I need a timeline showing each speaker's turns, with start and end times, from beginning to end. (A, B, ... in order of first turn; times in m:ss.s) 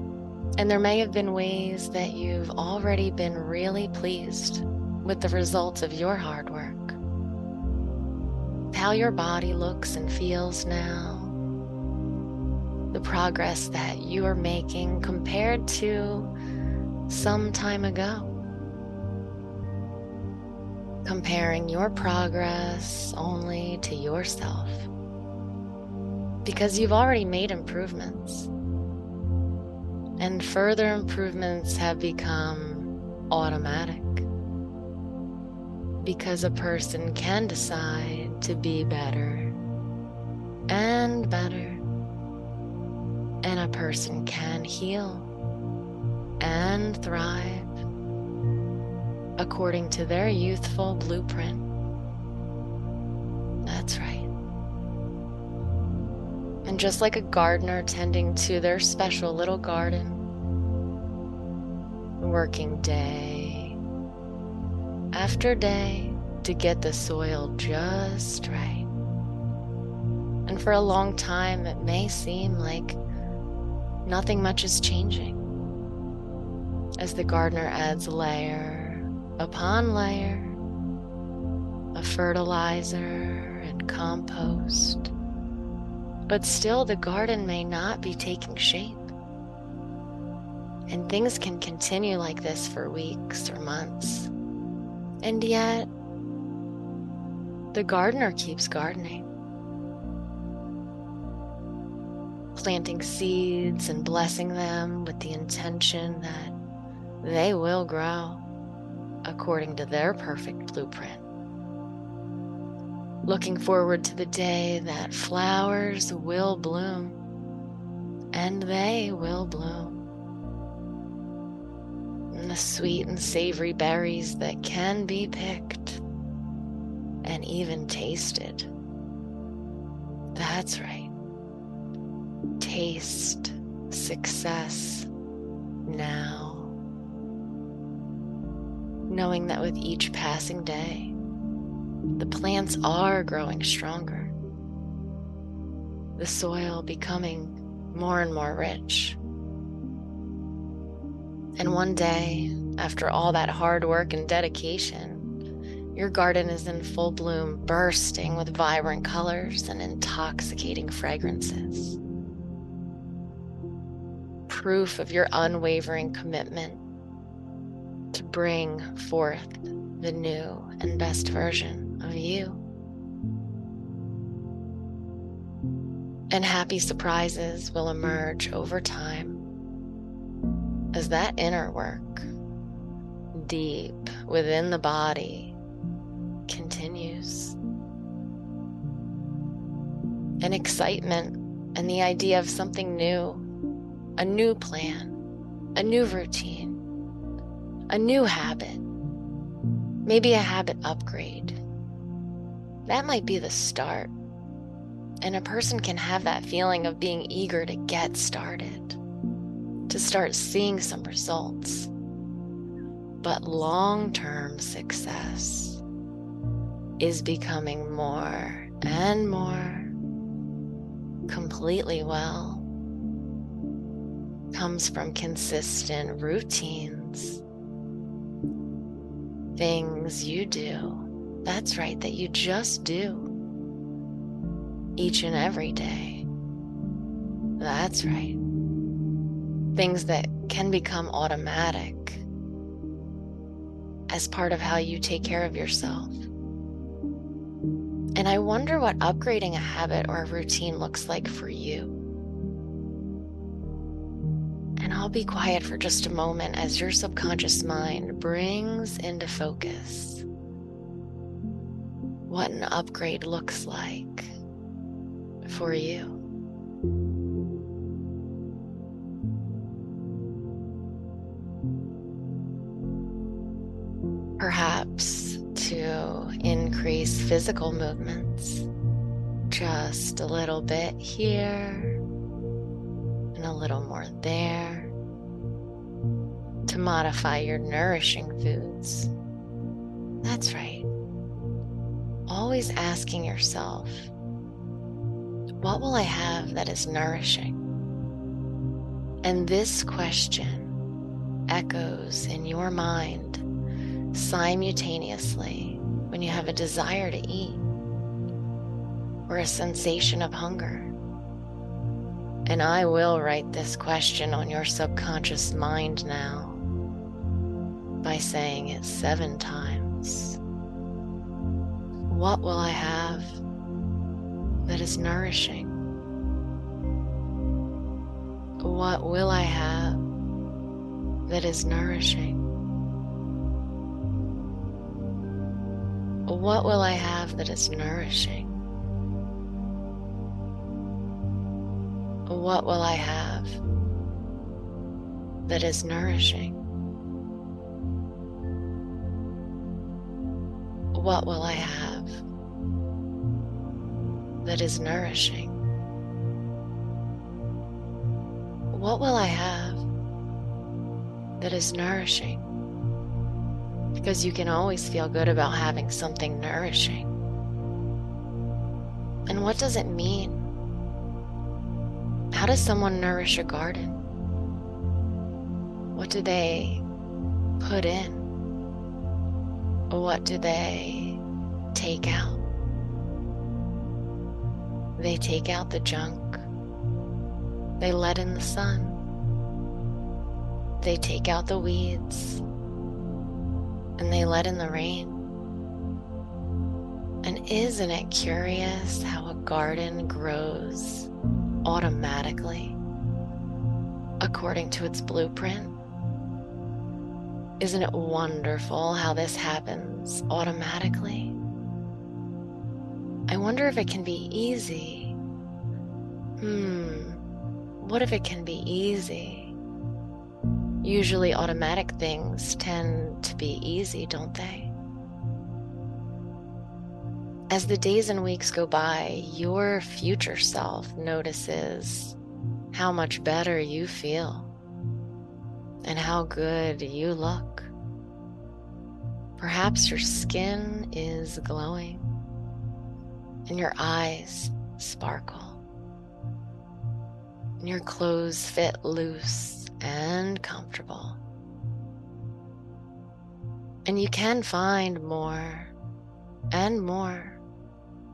0:00.6-0:07.0 A
0:08.7-0:11.4 A
0:12.9-0:16.3 A
0:17.1-0:18.3 A
0:21.0-0:24.9 A
0:26.4-0:28.5 A
0:30.2-0:34.3 A
0:36.0-0:39.6 A
0:40.7-0:41.8 A
0:43.4-0:45.3 A
0:46.4-0:47.7 A
0:49.4-0:51.7 A
0:53.6-0:54.3 A
0:56.6-1:00.3 A
1:02.2-1:03.8 A
1:05.1-1:08.9 A
1:10.5-1:13.0 A
1:14.0-1:15.4 A
1:17.0-1:20.6 A
1:22.0-1:25.1 A
1:26.3-1:29.1 A
1:30.9-1:34.3 A
1:35.2-1:35.9 A
1:37.7-1:39.3 A
1:42.6-1:46.6 A
1:47.2-1:48.5 A
1:49.2-1:51.2 A
1:53.3-1:57.2 A
1:58.3-2:00.0 A
2:02.3-2:06.0 A
2:07.2-2:08.7 A
2:10.4-2:11.1 A
2:12.6-2:15.1 A
2:15.8-2:16.8 A
2:19.1-2:21.2 A
2:22.2-2:24.4 A
2:26.2-2:29.2 A
2:31.6-2:35.3 A
2:36.0-2:42.0 A
2:44.5-2:46.8 A
2:48.1-2:52.6 A
2:56.3-2:59.4 A
3:00.9-3:02.3 A
3:03.3-3:05.6 A
3:06.5-3:07.6 A
3:10.4-3:13.5 A
3:14.2-3:15.2 A
3:15.8-3:16.8 A
3:17.9-3:18.8 A
3:20.1-3:21.6 A
3:22.9-3:24.1 A
3:25.2-3:29.0 A
3:29.9-3:31.9 A
3:33.2-3:35.8 A
3:37.0-3:39.9 A
3:41.3-3:42.7 A
3:44.5-3:47.4 A
3:49.6-3:53.3 A
3:55.0-3:56.3 A
3:57.6-3:58.4 A
3:59.8-4:02.2 A
4:04.1-4:06.3 A
4:08.2-4:12.0 A
4:14.8-4:20.3 A
4:22.3-4:24.3 A
4:25.5-4:26.2 A
4:34.4-4:38.7 A
4:39.5-4:42.0 A
4:43.3-4:44.9 A
4:46.7-4:49.1 A
4:50.2-4:50.9 A
4:52.3-4:54.1 A
4:55.6-4:57.6 A
4:59.2-5:00.8 A
5:01.5-5:03.4 A
5:04.1-5:07.6 A
5:09.3-5:10.9 A
5:12.5-5:16.6 A
5:18.0-5:20.4 A
5:22.1-5:23.4 A
5:24.7-5:25.9 A
5:28.6-5:30.0 A
5:31.3-5:32.4 A
5:36.3-5:38.6 A
5:42.3-5:43.6 A
5:45.5-5:46.6 A
5:50.9-5:52.2 A
5:54.4-5:55.6 A
5:58.7-5:59.8 A
6:01.4-6:02.5 A
6:04.0-6:07.1 A
6:09.3-6:10.4 A
6:12.3-6:14.0 A
6:15.9-6:16.8 A
6:17.6-6:18.3 A
6:19.9-6:21.2 A
6:21.7-6:22.4 A
6:25.0-6:26.5 A
6:27.8-6:29.0 A
6:30.8-6:32.4 A
6:34.0-6:35.2 A
6:37.2-6:41.1 A
6:41.6-6:42.8 A
6:44.2-6:45.8 A
6:47.6-6:51.4 A
6:53.3-6:55.2 A
6:56.4-6:57.2 A
6:57.8-6:59.6 A
7:00.8-7:04.7 A
7:07.5-7:12.2 A
7:12.7-7:14.5 A
7:15.8-7:17.7 A
7:19.4-7:22.0 A
7:23.5-7:25.6 A
7:27.6-7:31.2 A
7:33.8-7:35.7 A
7:36.5-7:37.4 A